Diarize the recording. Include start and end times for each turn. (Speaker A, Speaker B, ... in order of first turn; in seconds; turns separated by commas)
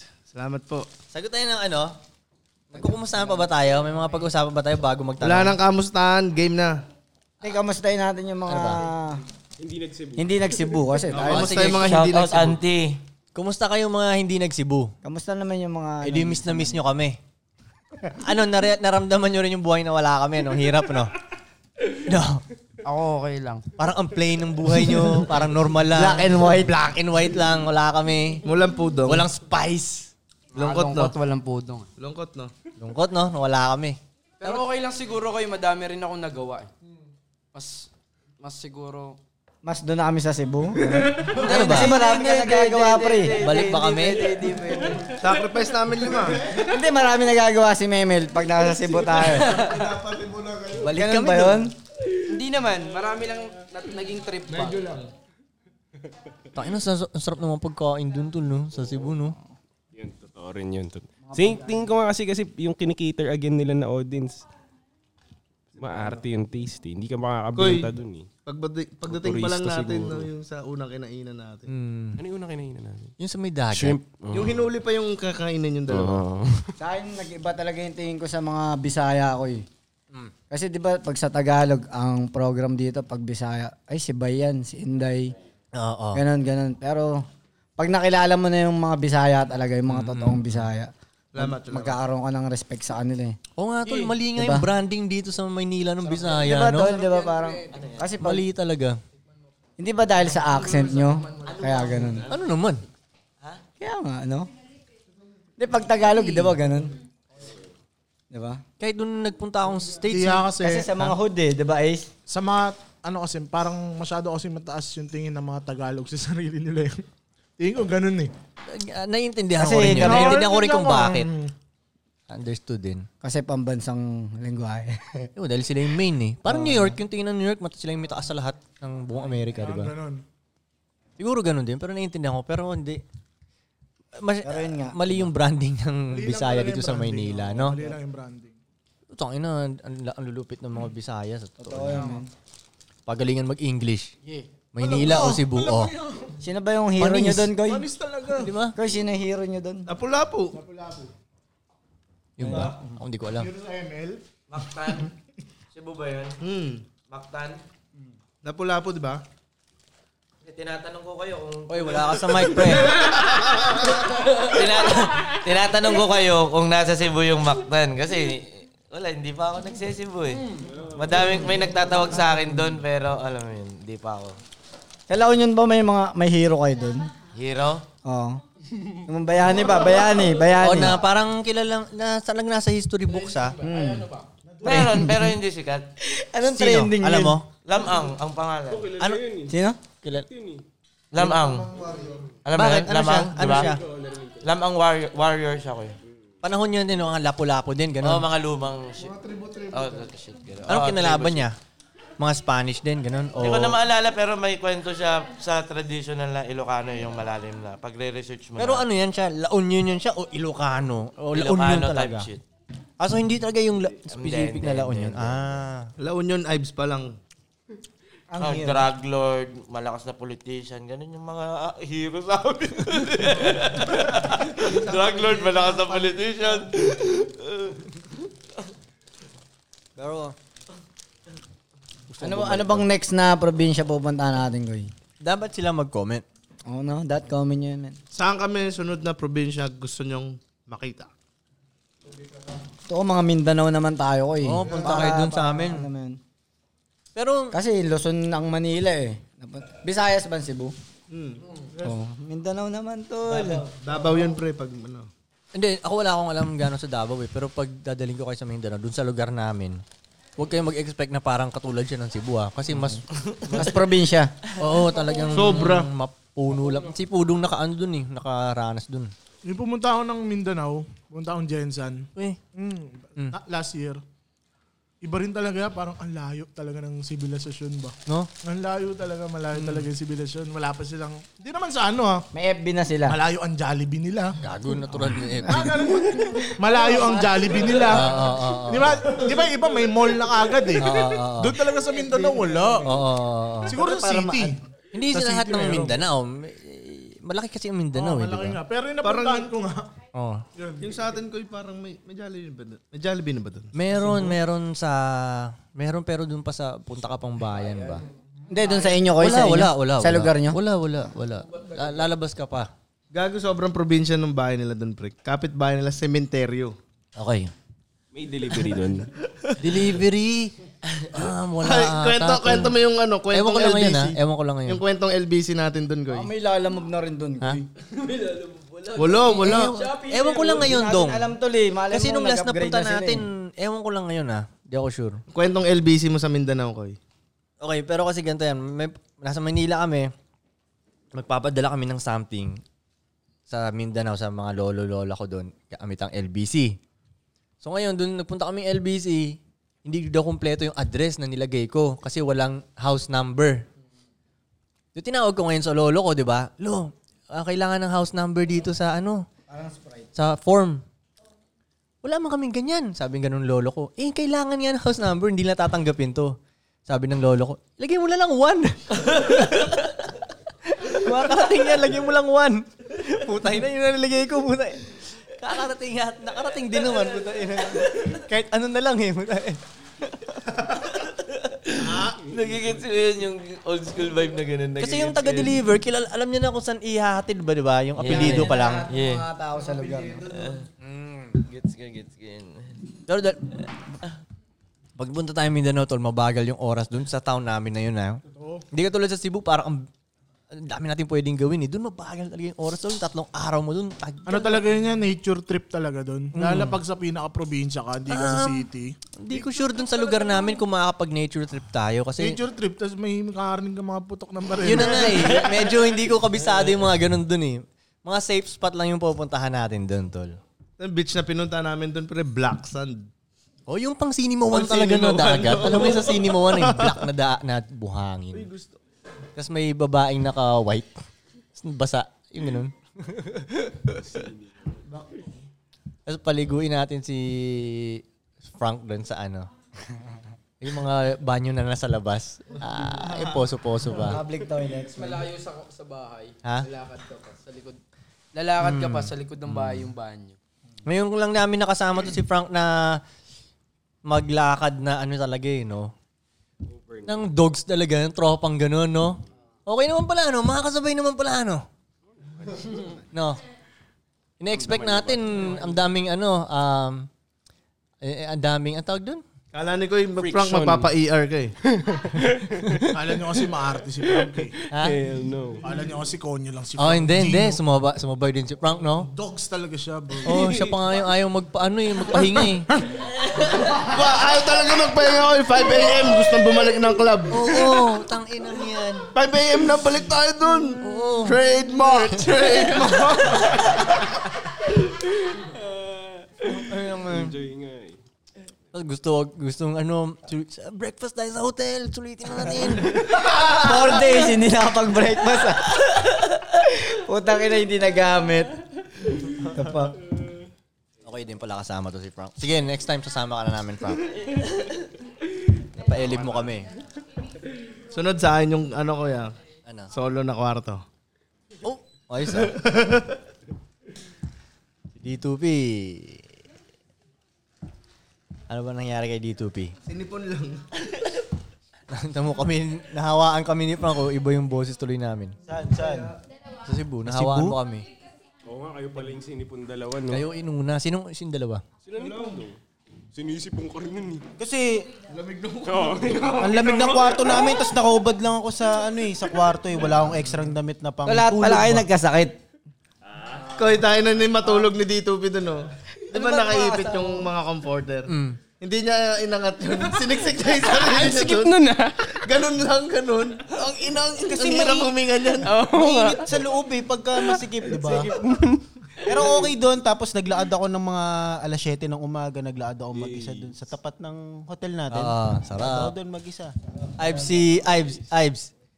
Speaker A: 0.3-0.9, Speaker B: 1.1-2.0, Speaker B: 2.7-5.6, Speaker A: 5.2-6.8, Speaker C: 7.4-9.2, Speaker B: 8.5-8.8, Speaker D: 9.6-10.5, Speaker C: 10.2-11.8, Speaker A: 11.1-12.6, Speaker B: 11.2-12.0, Speaker E: 11.8-13.0, Speaker B: 13.3-14.9, Speaker C: 15.0-16.8, Speaker B: 16.0-17.2, Speaker B: 18.1-21.1, Speaker B: 22.1-22.4, Speaker F: 22.8-23.7, Speaker B: 23.8-28.4, Speaker C: 25.9-26.9, Speaker A: 28.4-29.3, Speaker B: 29.1-30.1, Speaker A: 30.5-31.1, Speaker F: 30.6-31.9, Speaker A: 32.0-32.5, Speaker B: 32.8-34.6, Speaker F: 34.4-36.7, Speaker F: 37.5-37.9, Speaker F: 38.4-39.2, Speaker C: 39.6-43.4, Speaker B: 41.4-42.0, Speaker F: 41.4-45.2, Speaker B: 43.4-44.2, Speaker A: 45.1-46.4, Speaker C: 46.4-49.7, Speaker A: 49.2-50.9, Speaker B: 50.8-51.7, Speaker C: 50.9-51.7, Speaker F: 52.3-55.0, Speaker A: 54.5-55.1, Speaker B: 56.5-59.4, Speaker D: 60.0-64.4, Speaker D: 65.8-68.3, Speaker A: 67.6-67.9, Speaker A: 68.5-71.7, Speaker D: 69.1-70.3, Speaker B: 71.7-72.2, Speaker D: 72.2-73.1, Speaker B: 73.2-74.0, Speaker D: 73.7-74.7, Speaker A: 74.3-76.2, Speaker D: 75.9-76.7, Speaker C: 76.8-79.7, Speaker C: 80.5-85.3, Speaker B: 85.8-86.2, Speaker C: 86.1-87.2, Speaker C: 87.8-93.4, Speaker B: 89.9-90.6, Speaker A: 91.3-92.0, Speaker B: 93.6-97.0, Speaker C: 94.3-94.7, Speaker F: 96.0-96.4, Speaker C: 96.4-98.5, Speaker F: 97.0-97.5, Speaker E: 97.7-98.1, Speaker B: 98.2-99.0, Speaker C: 99.8-102.3, Speaker E: 101.4-102.3, Speaker B: 102.3-102.8, Speaker C: 103.8-104.5, Speaker C: 105.6-107.0, Speaker C: 108.3-108.6, Speaker B: 108.8-110.5, Speaker G: 110.1-111.0, Speaker C: 110.6-112.1, Speaker G: 112.3-117.0, Speaker G: 117.6-118.3, Speaker B: 118.7-121.3, Speaker C: 119.6-120.4, Speaker G: 119.8-121.5, Speaker B: 122.3-123.1, Speaker C: 123.2-125.3, Speaker B: 125.4-129.9, Speaker C: 126.5-127.0, Speaker G: 129.6-130.2, Speaker B: 131.2-133.0, Speaker B: 134.2-137.8, Speaker C: 134.4-135.3, Speaker G: 136.1-138.6, Speaker B: 139.1-142.1, Speaker C: 141.6-142.3, Speaker B: 143.1-144.2, Speaker B: 144.7-145.9, Speaker G: 144.8-146.3, Speaker C: 146.4-147.9, Speaker B: 147.0-147.6, Speaker G: 147.6-148.5, Speaker B: 148.4-148.8, Speaker C: 148.8-149.9, Speaker A: 149.9-150.6, Speaker G: 150.5-151.1, Speaker B: 152.4-153.5, Speaker G: 153.3-154.2, Speaker E: 154.5-155.1, Speaker E: 155.7-156.4, Speaker A: 156.4-156.9, Speaker E: 157.0-157.6, Speaker A: 158.4-159.2, Speaker E: 160.4-162.4, Speaker B: 161.7-162.9, Speaker E: 163.0-170.4, Speaker E: 171.0-174.4, Speaker C: 175.1-177.1, Speaker E: 177.3-177.8, Speaker C: 178.1-178.4, Speaker C: 179.1-181.0, Speaker B: 180.6-183.6, Speaker F: 183.1-184.3, Speaker C: 183.6-184.1, Speaker E: 184.6-185.9, Speaker C: 184.7-185.2, Speaker C: 186.0-187.4, Speaker B: 186.5-187.5, Speaker E: 187.7-188.9, Speaker D: 188.7-189.5, Speaker C: 189.5-189.8, Speaker D: 190.1-190.6, Speaker E: 191.1-191.7, Speaker A: 191.2-192.2, Speaker E: 192.4-193.8, Speaker B: 192.5-193.8, Speaker D: 193.8-194.4, Speaker E: 194.4-195.9, Speaker B: 196.4-198.3, Speaker E: 198.0-199.1, Speaker A: 199.2-200.0, Speaker E: 199.7-201.5, Speaker B: 200.7-201.6, Speaker B: 202.2-203.8, Speaker E: 203.4-208.8, Speaker B: 208.6-212.3, Speaker E: 211.3-212.4, Speaker B: 213.0-215.9, Speaker E: 214.1-215.3, Speaker A: 216.0-217.2, Speaker C: 218.3-218.9, Speaker E: 218.4-227.8, Speaker C: 224.6-226.5, Speaker B: 230.0-230.3, Speaker C: 232.2-234.9, Speaker B: 232.2-232.8, Speaker B: 235.2-236.2, Speaker C: 236.7-238.0, Speaker A: 238.1-241.1, Speaker C: 242.9-246.2, Speaker B: 244.4-245.9, Speaker B: 247.2-247.6, Speaker C: 247.5-250.8, Speaker A: 251.1-251.8, Speaker C: 251.8-253.7, Speaker A: 253.6-255.1, Speaker B: 255.6-259.8, Speaker B: 260.4-263.6, Speaker C: 263.5-264.4, Speaker B: 264.6-269.1, Speaker A: 265.3-265.9, Speaker G: 269.4-274.0, Speaker G: 275.0-282.3, Speaker C: 282.3-283.2, Speaker G: 283.1-284.4, Speaker B: 284.4-285.8, Speaker G: 285.5-292.9, Speaker C: 286.1-287.9, Speaker B: 287.9-289.1, Speaker B: 290.8-291.6, Speaker C: 292.0-292.7, Speaker B: 292.8-293.8, Speaker G: 293.7-294.6, Speaker C: 293.7-294.6, Speaker B: 294.9-298.6, Speaker G: 295.1-295.9, Speaker G: 297.9-299.9, Speaker A: 299.0-299.5, Speaker B: 300.1-300.4, Speaker G: 300.6-300.9, Speaker A: 300.8-303.7, Speaker B: 303.7-308.1, Speaker G: 304.1-304.3, Speaker C: 308.5-310.6, Speaker B: 309.2-312.7, Speaker A: 313.1-316.8, Speaker B: 317.2-317.5, Speaker D: 318.1-319.1, Speaker B: 319.6-320.6, Speaker B: 321.1-322.8, Speaker A: 321.6-326.3, Speaker B: 323.3-324.8, Speaker C: 326.1-327.7, Speaker F: 327.9-330.7, Speaker A: 328.9-329.9, Speaker B: 329.3-331.3, Speaker C: 330.5-333.3, Speaker B: 331.9-335.2, Speaker A: 335.3-337.0, Speaker B: 337.6-340.1, Speaker B: 341.1-342.6, Speaker B: 343.5-346.8, Speaker B: 347.6-353.6, Speaker B: 354.9-359.3, Speaker C: 359.5-360.1, Speaker B: 360.1-360.8, Speaker B: 362.0-366.4, Speaker B: 366.9-369.7, Speaker B: 370.7-379.6, Speaker E: 381.1-385.5, Speaker B: 384.8-388.9, Speaker E: 388.0-389.3, Speaker C: 388.0-390.6, Speaker E: 390.3-390.6, Speaker B: 390.8-391.4, Speaker E: 391.4-392.7, Speaker B: 393.1-393.5, Speaker B: 395.0-399.9, Speaker G: 398.3-398.6, Speaker B: 400.5-404.6, Speaker G: 404.3-408.9, Speaker B: 406.3-406.8, Speaker B: 408.1-408.7, Speaker B: 409.2-412.4, Speaker G: 412.2-415.6, Speaker B: 414.6-420.4, Speaker A: 420.8-423.1, Speaker B: 423.7-428.5, Speaker A: 424.5-427.0, Speaker A: 428.3-428.8, Speaker B: 429.4-431.0, Speaker B: 431.6-433.9, Speaker D: 434.1-434.4, Speaker B: 436.1-439.5, Speaker B: 440.6-444.2, Speaker C: 443.9-445.3, Speaker F: 444.9-447.8, Speaker F: 448.3-450.4, Speaker B: 448.6-449.9, Speaker B: 450.9-453.0, Speaker B: 454.1-455.9, Speaker D: 456.7-457.3, Speaker B: 457.1-461.6, Speaker D: 462.2-463.0, Speaker B: 463.1-463.4, Speaker B: 464.4-467.1, Speaker D: 464.5-465.8, Speaker B: 468.0-469.2, Speaker A: 469.5-471.5, Speaker D: 470.2-470.9, Speaker D: 471.6-472.9, Speaker G: 472.9-474.6, Speaker B: 474.7-475.0, Speaker D: 474.7-475.6, Speaker G: 475.6-477.6, Speaker B: 476.8-479.1, Speaker G: 479.1-480.5, Speaker B: 480.2-482.7, Speaker A: 483.8-487.7, Speaker B: 487.3-489.1, Speaker A: 489.1-493.5, Speaker B: 490.8-492.3, Speaker D: 495.4-496.4, Speaker B: 496.4-497.4, Speaker D: 497.1-498.0, Speaker B: 498.7-503.1, Speaker C: 503.0-505.8, Speaker C: 506.6-508.5, Speaker C: 509.3-510.0, Speaker B: 511.1-514.1, Speaker B: 515.7-516.7, Speaker A: 517.9-519.4, Speaker B: 519.7-519.9, Speaker A: 519.9-520.8, Speaker B: 521.6-522.6, Speaker A: 522.3-523.2, Speaker B: 525.0-526.3, Speaker B: 528.5-529.7, Speaker A: 529.9-530.6, Speaker B: 531.9-535.4, Speaker C: 535.5-535.9, Speaker H: 535.5-536.1, Speaker A: 535.7-536.1, Speaker B: 536.6-537.9, Speaker H: 537.0-537.6, Speaker D: 538.5-540.2, Speaker B: 540.1-541.6, Speaker D: 541.9-542.6, Speaker A: 542.0-542.5, Speaker D: 543.1-544.2, Speaker H: 544.4-544.9, Speaker A: 545.1-546.3, Speaker D: 545.6-547.6, Speaker H: 546.4-551.9, Speaker C: 551.0-552.4, Speaker A: 553.5-565.5, Speaker C: 556.1-557.3, Speaker B: 558.1-558.4, Speaker F: 560.7-561.9, Speaker D: 561.1-561.5, Speaker H: 564.3-564.9, Speaker F: 565.5-566.1, Speaker H: 565.7-568.2, Speaker D: 567.9-568.6, Speaker H: 569.0-576.5, Speaker D: 572.9-573.5, Speaker B: 574.9-575.9, Speaker B: 577.0-578.5